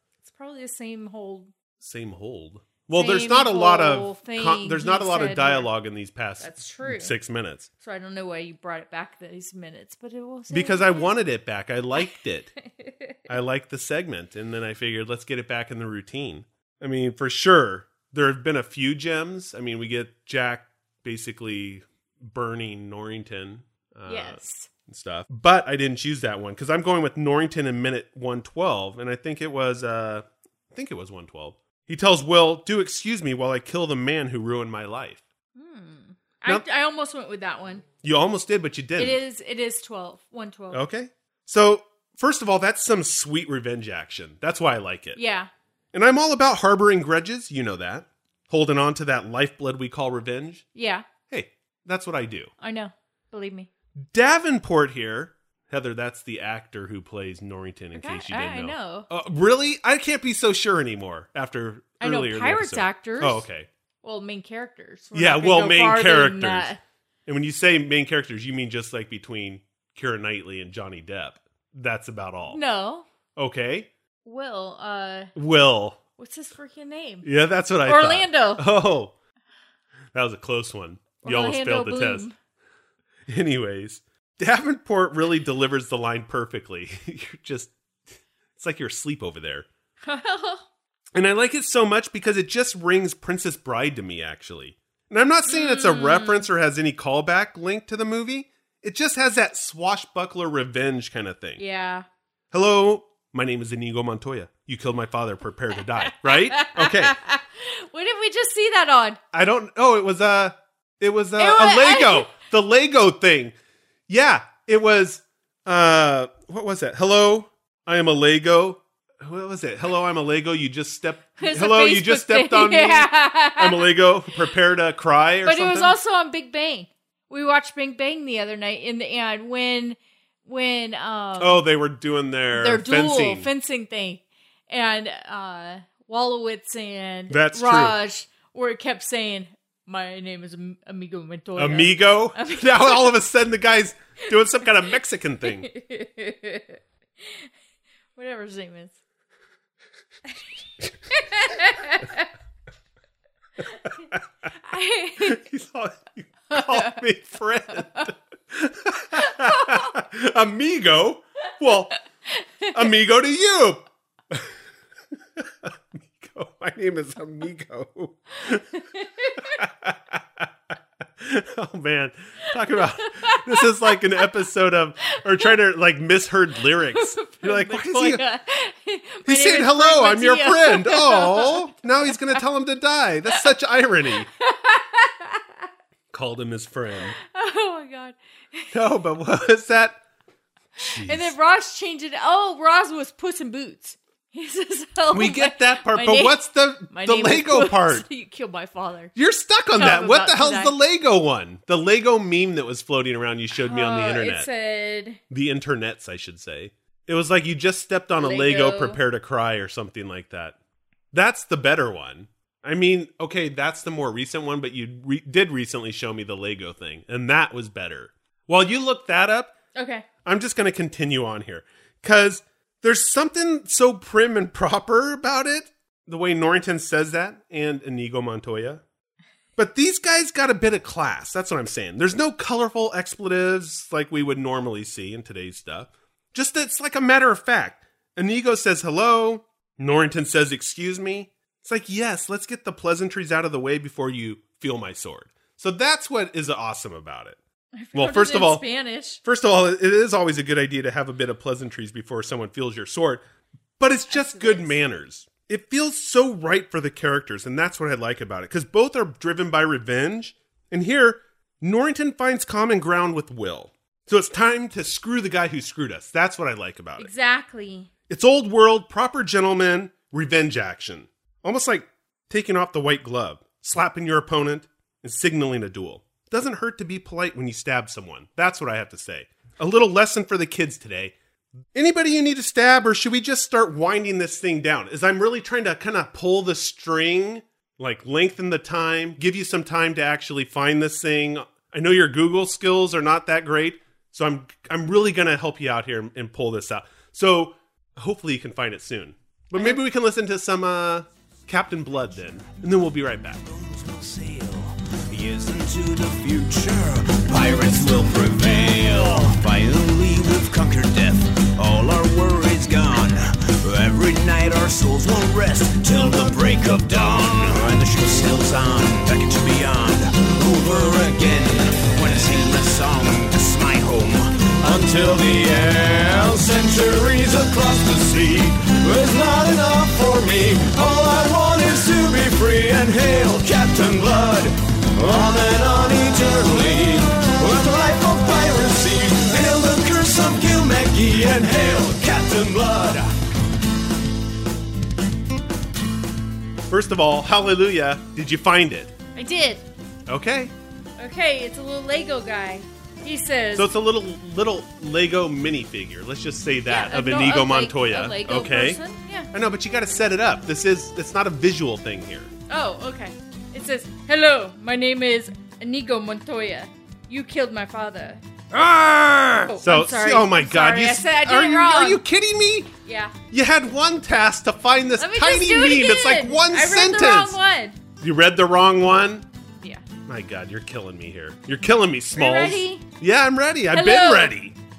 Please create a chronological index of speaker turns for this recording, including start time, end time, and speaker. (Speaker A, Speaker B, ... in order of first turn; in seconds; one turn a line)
Speaker A: 0.2-1.5
Speaker B: 1.8-7.7
Speaker A: 2.9-5.7
Speaker A: 6.4-7.1
Speaker A: 7.8-11.1
Speaker B: 10.5-12.5
Speaker A: 12.8-13.1
Speaker B: 13.3-35.2
Speaker A: 24.1-24.7
Speaker A: 35.5-37.8
Speaker B: 38.0-39.2
Speaker A: 39.0-40.8
Speaker B: 40.7-45.2
Speaker A: 45.1-45.5
Speaker B: 45.9-50.6
Speaker A: 50.7-51.0
Speaker B: 51.3-52.5
Speaker A: 52.6-53.7
Speaker B: 54.1-63.7
Speaker A: 57.9-59.1
Speaker A: 62.0-63.4
Speaker A: 64.0-66.8
Speaker B: 65.1-66.7
Speaker B: 67.2-72.6
Speaker A: 72.5-73.0
Speaker B: 73.3-73.9
Speaker A: 74.2-75.3
Speaker B: 75.3-76.0
Speaker A: 76.2-77.3
Speaker B: 77.2-79.1
Speaker A: 77.8-78.7
Speaker B: 80.1-82.3
Speaker A: 81.2-82.3
Speaker B: 83.3-87.7
Speaker B: 88.5-89.7
Speaker A: 90.0-90.6
Speaker B: 91.1-101.6
Speaker A: 95.5-96.5
Speaker A: 101.6-102.0
Speaker B: 102.5-107.2
Speaker A: 106.0-109.2
Speaker B: 109.3-113.5
Speaker A: 111.4-112.3
Speaker B: 114.1-126.0
Speaker A: 121.4-123.9
Speaker A: 125.4-131.6
Speaker B: 131.4-133.5
Speaker A: 132.5-143.2
Speaker B: 137.3-137.9
Speaker B: 141.6-145.7
Speaker A: 145.4-147.5
Speaker A: 148.2-148.9
Speaker A: 151.1-152.3
Speaker A: 154.6-155.4
Speaker B: 155.2-161.9
Speaker A: 156.5-157.0
Speaker A: 159.2-159.9
Speaker A: 162.3-162.7
Speaker B: 162.7-164.5
Speaker B: 165.3-168.7
Speaker A: 168.7-169.5
Speaker B: 169.4-178.2
Speaker A: 173.1-173.9
Speaker A: 176.9-181.8
Speaker B: 179.2-184.3
Speaker A: 184.4-185.5
Speaker B: 186.1-187.1
Speaker A: 187.2-188.7
Speaker B: 188.7-190.0
Speaker B: 190.8-191.3
Speaker A: 191.0-199.1
Speaker B: 195.1-198.0
Speaker B: 199.1-204.5
Speaker A: 199.8-200.7
Speaker A: 203.6-205.2
Speaker B: 205.3-210.6
Speaker A: 208.2-209.0
Speaker B: 211.1-219.5
Speaker A: 219.8-220.0
Speaker B: 220.2-228.8
Speaker B: 229.6-247.4
Speaker A: 247.8-249.2
Speaker B: 247.9-248.7
Speaker B: 249.2-253.2
Speaker B: 253.8-267.1
Speaker A: 254.1-254.8
Speaker A: 267.0-267.9
Speaker B: 268.1-281.1
Speaker B: 281.7-303.4
Speaker C: 303.5-343.1
Speaker B: 346.7-348.9
Speaker A: 349.1-349.6
Speaker B: 350.1-350.5
Speaker A: 351.0-353.7
Speaker B: 353.5-358.8
Speaker A: 356.7-359.3
Speaker B: 359.3-362.3
Speaker A: 362.5-368.2
Speaker A: 369.3-372.0
Speaker B: 369.6-372.7
Speaker A: 372.8-373.1
Speaker B: 373.3-377.4
Speaker A: 375.0-377.8
Speaker B: 378.0-379.2
Speaker B: 380.1-384.6
Speaker A: 382.1-382.8
Speaker A: 383.7-384.3